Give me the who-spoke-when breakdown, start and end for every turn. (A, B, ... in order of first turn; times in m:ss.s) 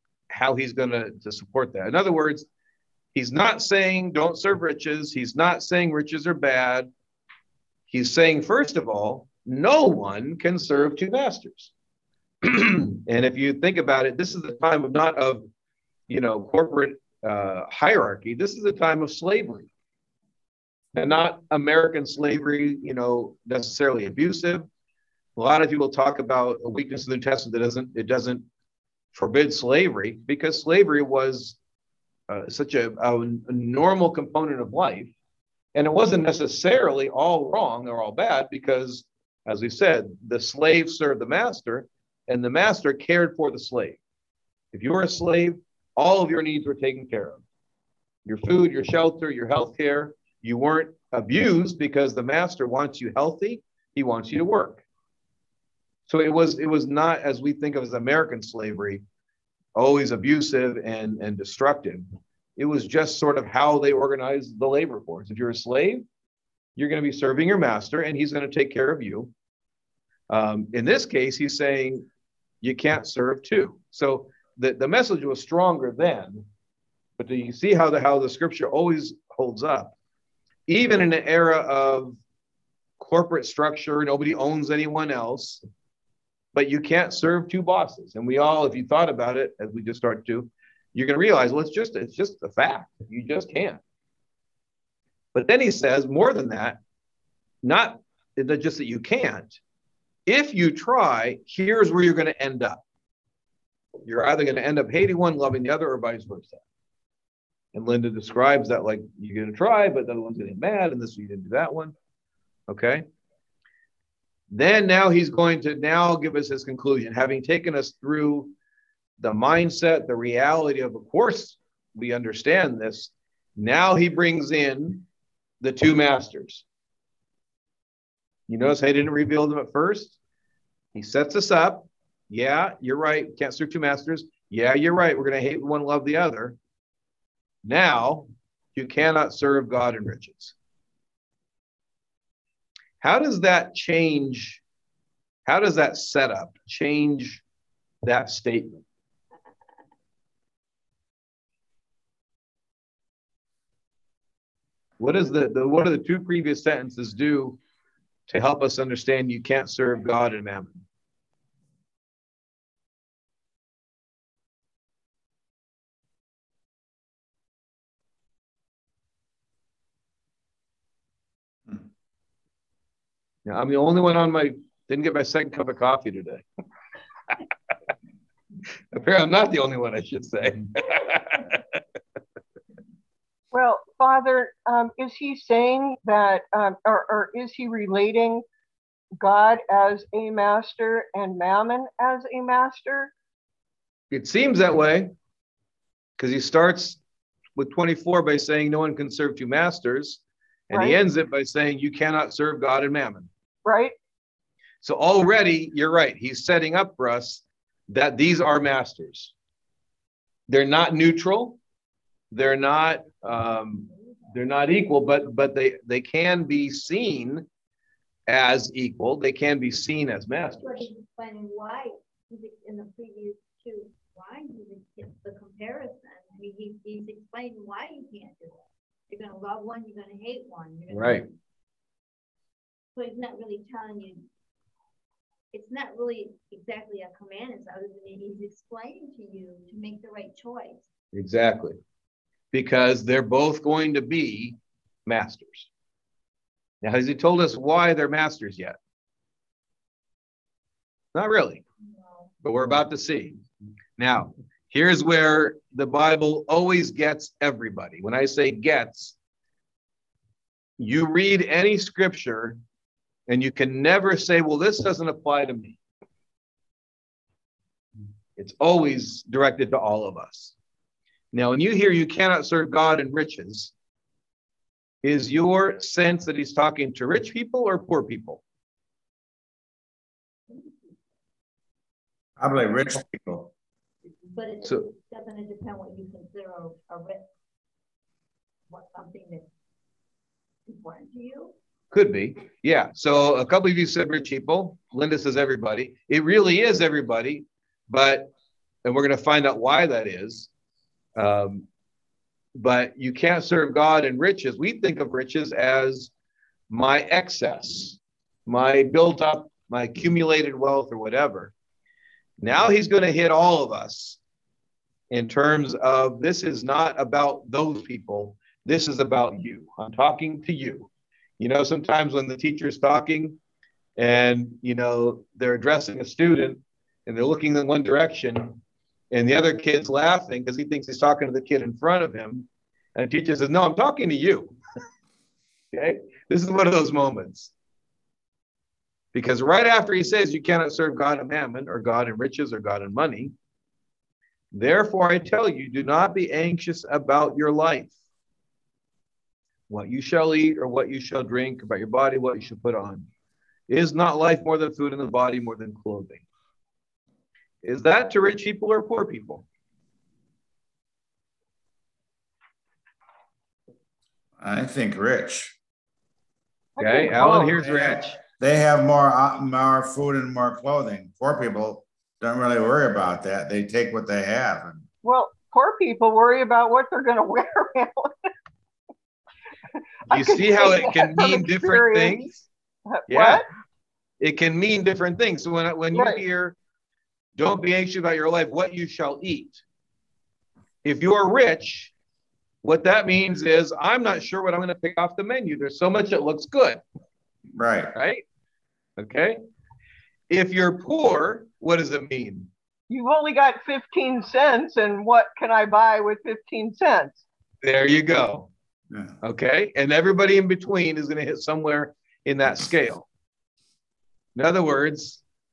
0:00.3-0:02.5 A
0:03.1-0:06.9 A
0:07.9-0:11.7 A
0:12.4-0:15.5 A
0:16.1-0:19.7 A
0:21.0-0:24.7 A
0:25.4-0:28.5 A
0:29.1-0:31.6 A
0:32.3-0:35.1 A
0:35.8-0:44.0 A
0:44.7-0:47.4 A
0:48.3-0:54.8 A
0:56.1-0:59.0 A
0:59.8-1:06.0 A
1:06.8-1:09.3 A
1:10.3-1:12.1 A
1:12.6-1:16.5 A
1:17.2-1:20.0 A
1:20.7-1:22.2 A
1:23.0-1:25.6 A
1:26.5-1:33.8 A
1:35.3-1:36.8 A
1:37.6-1:39.6 A
1:40.3-1:42.8 A
1:44.0-1:46.6 A
1:47.7-1:51.9 A
1:52.7-1:53.0 A
1:54.5-1:58.5 A
1:59.2-2:05.0 A
2:05.6-2:06.6 A
2:08.5-2:10.2 A
2:10.9-2:16.6 A
2:17.6-2:20.5 A
2:23.0-2:24.6 A
2:25.5-2:27.4 A
2:28.0-2:28.8 A
2:35.0-2:37.6 A
2:38.3-2:40.8 A
2:53.5-2:56.4 A
2:58.9-3:01.8 A
3:03.5-3:08.4 B
3:09.2-3:13.1 B
3:14.1-3:15.1 A
3:16.2-3:17.0 A
3:17.6-3:23.3 A
3:20.7-3:21.0 B
3:23.6-3:24.0 B
3:24.8-3:29.3 A
3:30.5-3:31.6 A
3:32.3-3:37.5 A
3:38.3-3:40.9 A
3:40.6-3:51.3 C
3:50.9-3:51.3 A
3:53.0-3:54.3 C
3:55.5-4:00.9 C
4:01.1-4:01.8 A
4:02.5-4:05.7 A
4:06.8-4:08.8 A
4:11.1-4:11.6 A
4:12.4-4:13.4 A
4:14.0-4:19.2 A
4:20.8-4:22.6 A
4:23.3-4:25.8 A
4:28.4-4:30.6 A
4:31.3-4:33.7 A
4:35.0-4:38.4 A
4:42.4-4:43.5 D
4:44.3-4:47.3 C
4:48.7-4:49.5 C
4:50.7-4:51.5 C
4:51.9-4:58.3 A
4:58.8-5:00.5 A
5:01.2-5:01.7 A
5:02.6-5:06.1 A
5:06.7-5:11.5 A
5:12.4-5:14.2 A
5:15.1-5:23.4 A
5:24.0-5:34.5 A
5:35.7-5:37.5 A
5:39.1-5:43.3 A
5:44.5-5:47.9 A
5:49.7-5:53.1 A
5:53.7-5:56.2 A
5:57.6-5:59.5 A
6:04.4-6:05.6 D
6:06.8-6:07.6 B
6:06.8-6:08.2 A
6:07.6-6:14.8 D
6:15.0-6:18.1 B
6:20.1-6:22.3 B
6:20.1-6:22.4 A
6:22.9-6:23.5 B
6:23.1-6:23.4 A
6:24.2-6:26.6 A
6:25.9-6:26.2 B
6:27.4-6:29.6 A
6:30.8-6:31.9 A
6:32.6-6:36.8 A
6:37.5-6:37.9 D
6:37.9-6:38.2 A
6:39.0-6:39.4 A
6:40.3-6:42.5 A
6:42.9-6:47.2 B
6:47.6-6:48.5 A
6:49.2-6:53.1 A
6:54.4-6:55.2 A